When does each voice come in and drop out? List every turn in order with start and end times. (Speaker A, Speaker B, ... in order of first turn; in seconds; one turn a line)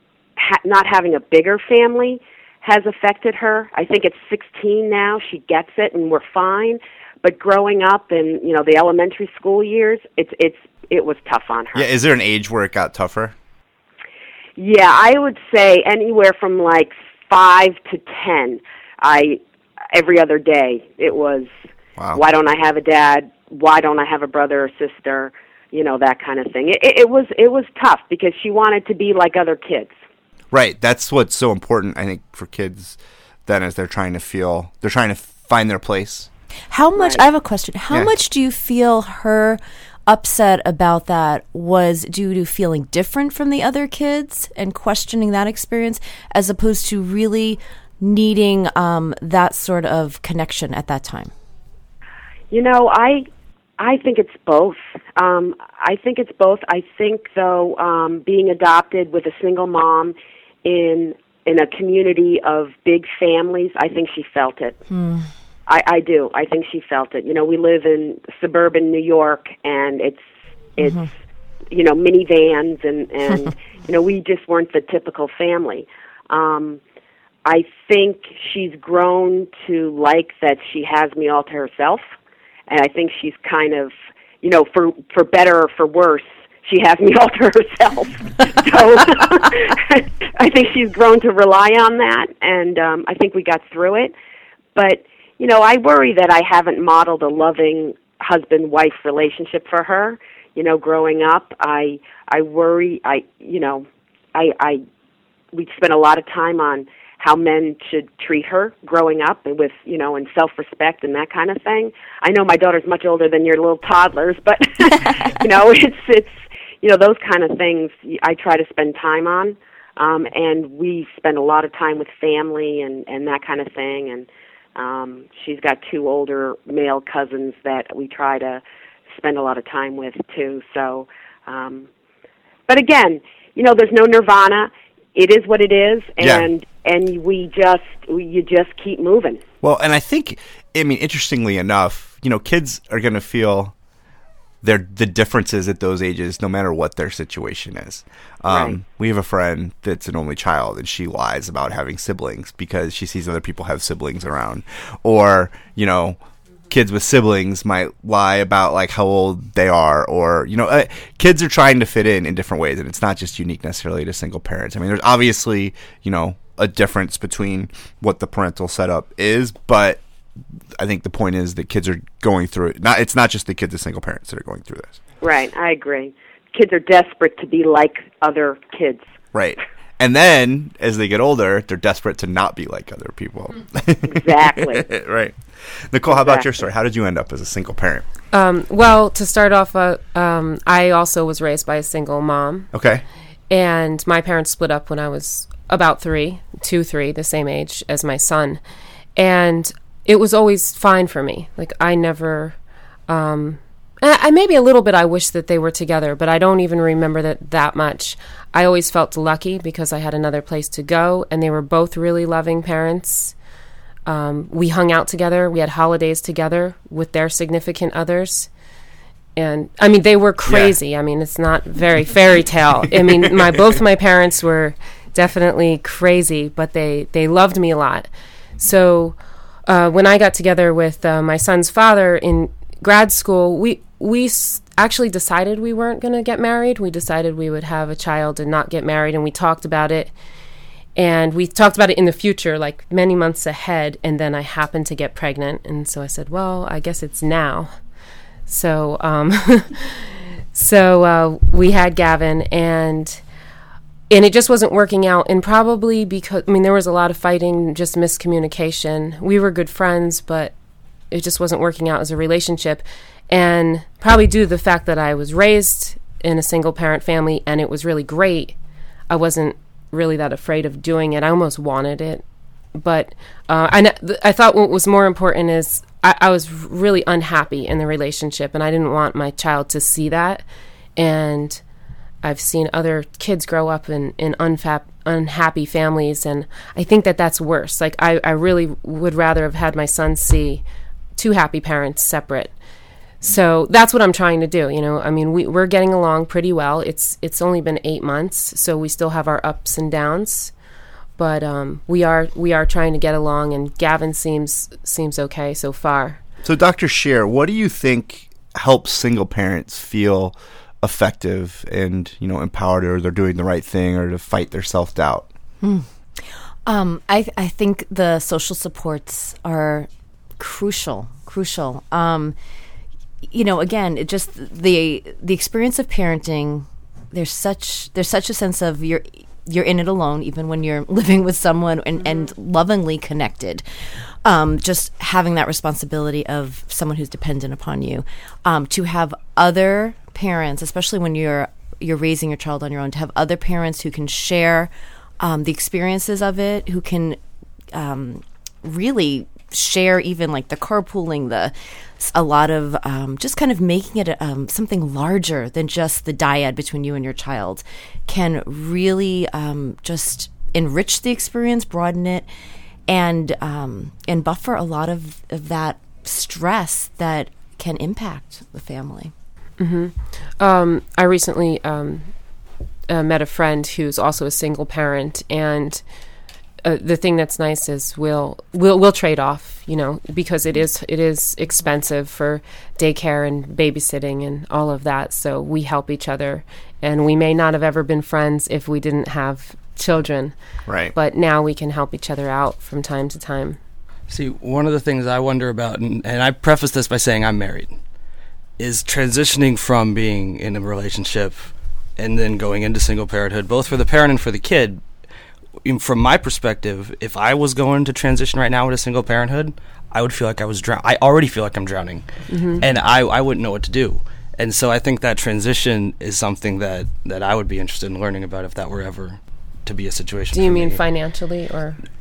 Speaker A: 0.4-11.9
Speaker B: 11.8-13.3
Speaker A: 14.6-19.4
Speaker A: 19.9-21.5
Speaker A: 22.1-29.9
Speaker B: 30.5-36.3
Speaker C: 36.7-51.3
Speaker A: 37.0-37.2
Speaker A: 52.5-53.3
Speaker A: 53.8-64.8
Speaker C: 64.9-65.3
Speaker A: 65.7-71.0
Speaker C: 70.8-71.1
Speaker A: 71.7-76.8
Speaker A: 77.5-82.0
Speaker A: 82.7-94.1
Speaker A: 94.8-104.8
Speaker A: 105.5-131.9
Speaker A: 132.7-139.4
Speaker B: 136.2-136.5
Speaker B: 139.6-143.7
Speaker B: 144.6-156.2
Speaker A: 148.5-148.8
Speaker B: 156.7-170.0
Speaker B: 170.8-175.0
Speaker A: 175.2-179.0
Speaker B: 179.3-185.3
Speaker A: 184.1-184.9
Speaker B: 185.9-188.1
Speaker A: 186.1-186.5
Speaker D: 188.3-192.7
Speaker B: 192.7-193.0
Speaker D: 193.5-198.6
Speaker D: 199.2-202.6
Speaker D: 203.1-213.3
Speaker D: 214.1-218.5
Speaker D: 219.4-240.1
Speaker B: 220.5-220.8
Speaker D: 241.0-247.7
Speaker D: 248.5-253.2
Speaker D: 254.1-260.5
Speaker D: 261.1-268.6
Speaker D: 269.1-272.2
Speaker D: 272.8-280.4
Speaker D: 281.0-281.6
Speaker D: 282.2-290.6
Speaker D: 291.2-292.5
Speaker D: 293.2-300.5
Speaker D: 301.2-306.2
Speaker B: 306.4-315.3
Speaker C: 315.6-322.4
Speaker C: 323.2-333.6
Speaker C: 334.2-347.2
Speaker C: 347.7-362.3
Speaker C: 362.9-369.1
Speaker D: 369.6-372.1
Speaker D: 372.9-375.8
Speaker D: 376.6-390.4
Speaker B: 390.7-390.9
Speaker D: 390.9-393.6
Speaker E: 394.1-397.8
Speaker E: 398.6-404.9
Speaker E: 405.6-420.8
Speaker D: 412.3-412.6
Speaker D: 420.3-421.8